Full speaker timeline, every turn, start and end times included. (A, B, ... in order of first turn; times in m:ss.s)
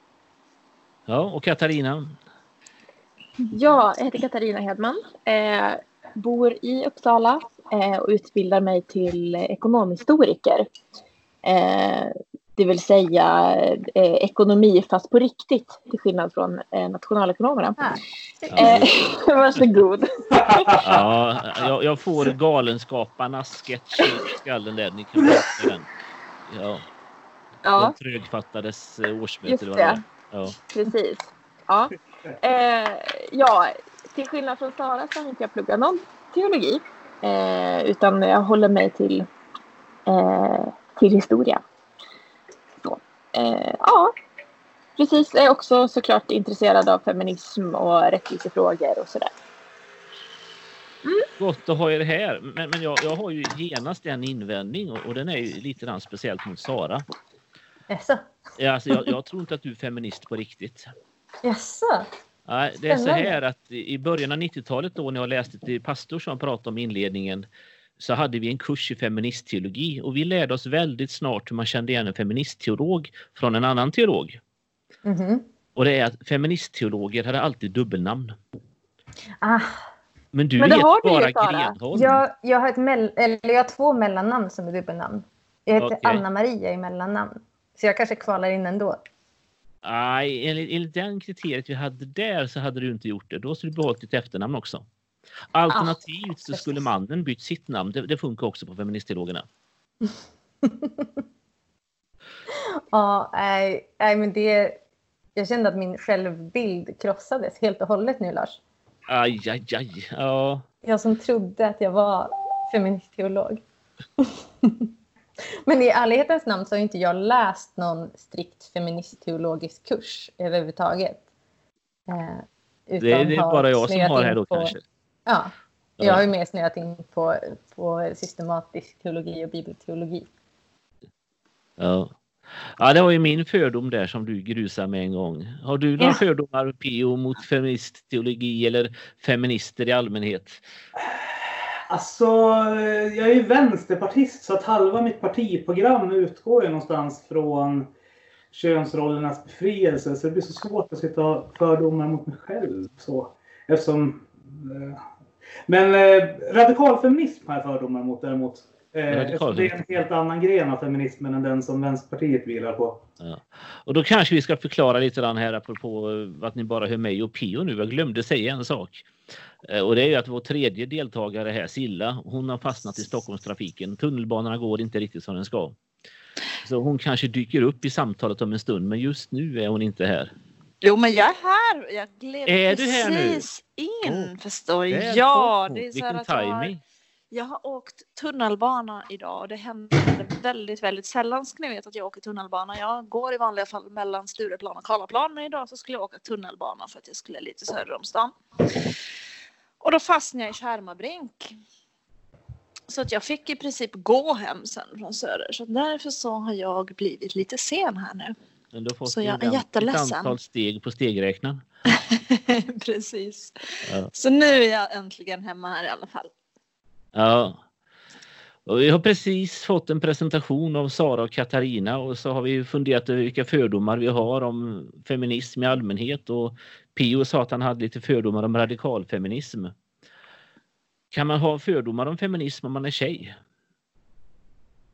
0:01.1-0:02.2 A
0:03.5-0:10.7 B
0:11.4-0:17.8 B
0:17.8-0:18.8 C
0:18.5-0:19.0 A
0:18.6-0:20.7 B
0:20.3-0:21.0 D
0:20.8-0:25.9 A
0:26.5-0:26.8 A
0:27.6-0:28.0 B
0:27.8-0:30.6 A
0:29.5-0:30.0 B
0:30.7-0:39.3 B
0:40.1-0:41.6 B
0:42.8-0:44.1 B
0:45.0-0:49.3 B
0:51.4-0:57.0 A
0:57.9-0:58.2 C
0:58.6-1:00.9 A
1:01.4-1:02.1 C
1:02.5-1:07.5 A
1:02.9-1:03.4 C
1:08.0-1:14.4 A
1:15.0-1:15.5 C
1:15.8-1:18.4 A
1:19.4-1:19.8 C
1:20.3-1:22.2 A
1:20.6-1:21.8 B
1:21.9-1:29.0 C
1:25.8-1:26.2 A
1:29.8-1:34.9 A
1:35.5-1:39.5 A
1:35.7-1:36.0 C
1:36.5-1:36.8 C
1:40.6-1:41.1 C
1:42.9-1:44.8 C
1:45.4-1:48.6 C
1:49.1-1:50.6 A
1:50.8-1:53.6 C
1:54.2-1:54.9 C
1:55.7-2:01.2 C
2:02.1-2:04.8 C
2:03.0-2:04.8 A
2:05.3-2:10.3 C
2:11.8-2:20.6 A
2:21.0-2:27.9 D
2:28.5-2:35.0 D
2:35.7-2:43.0 D
2:39.1-2:40.0 A
2:43.2-2:55.8 A
2:56.6-3:00.3 A
3:00.8-3:06.7 E
3:02.5-3:03.5 A
3:04.0-3:04.3 A
3:04.9-3:06.8 A
3:07.3-3:18.9 E
3:19.8-3:21.6 E
3:22.9-3:28.4 E
3:28.7-3:31.6 A
3:29.1-3:30.4 E
3:31.9-3:36.3 E
3:37.2-3:37.6 A
3:38.7-3:49.7 A
3:51.1-3:53.4 A